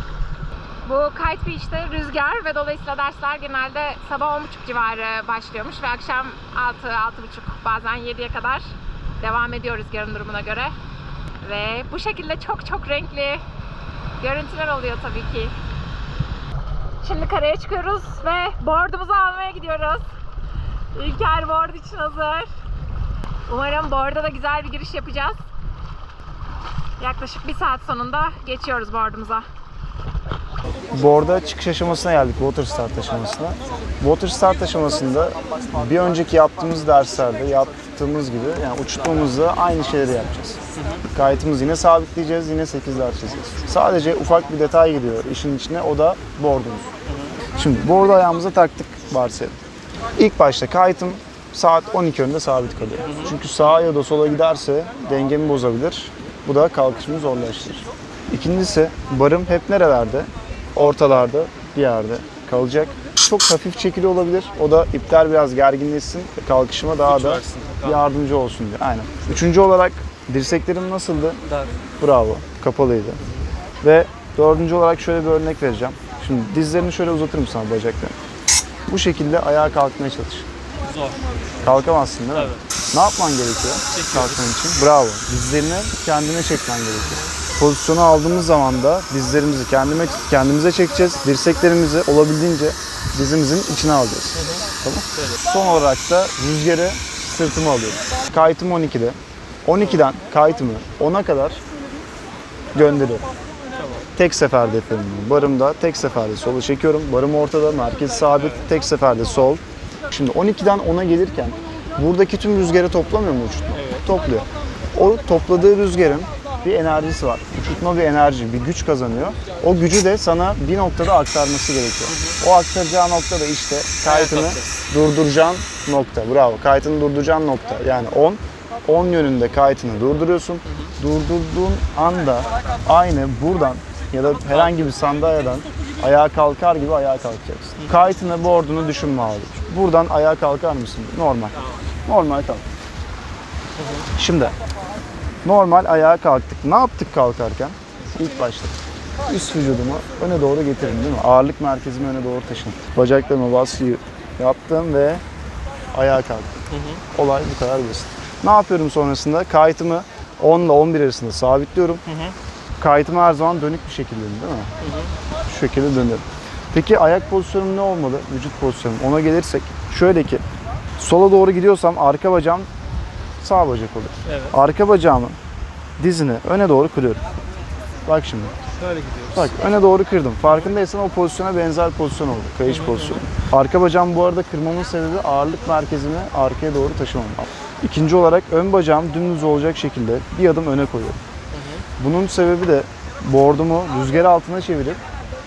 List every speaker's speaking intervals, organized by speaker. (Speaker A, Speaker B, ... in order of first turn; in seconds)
Speaker A: 0.8-10.8, 11.4-13.4, 14.2-15.5, 17.0-20.0, 20.9-22.5, 23.5-25.4, 27.0-29.4
Speaker B: 30.9-40.6, 41.1-46.9, 47.5-49.6, 50.2-71.4, 72.0-73.2, 73.8-78.1, 78.9-80.5, 81.6-101.6, 102.7-103.3, 104.2-142.6, 144.2-144.6, 145.4-155.2, 155.9-156.6, 157.1-162.0, 162.8-164.7, 165.5-170.4, 171.0-172.7, 173.4-175.4, 176.0-177.2, 178.1-178.5, 179.3-191.2, 192.0-195.0
Speaker C: 40.8-41.0, 47.1-47.4, 53.0-53.8, 60.8-61.1, 67.0-68.1, 73.2-73.5, 80.9-82.6, 83.9-84.4, 87.0-87.3, 94.3-95.4, 99.8-100.1, 103.7-104.1, 108.4-108.7, 113.7-114.0, 122.1-122.4, 124.0-124.8, 130.7-130.9, 134.4-136.0, 137.8-138.1, 143.8-144.1, 156.7-157.0, 162.1-162.3, 164.8-165.1, 174.2-174.5, 178.8-179.5, 180.4-180.7, 182.7-183.2, 191.5-191.8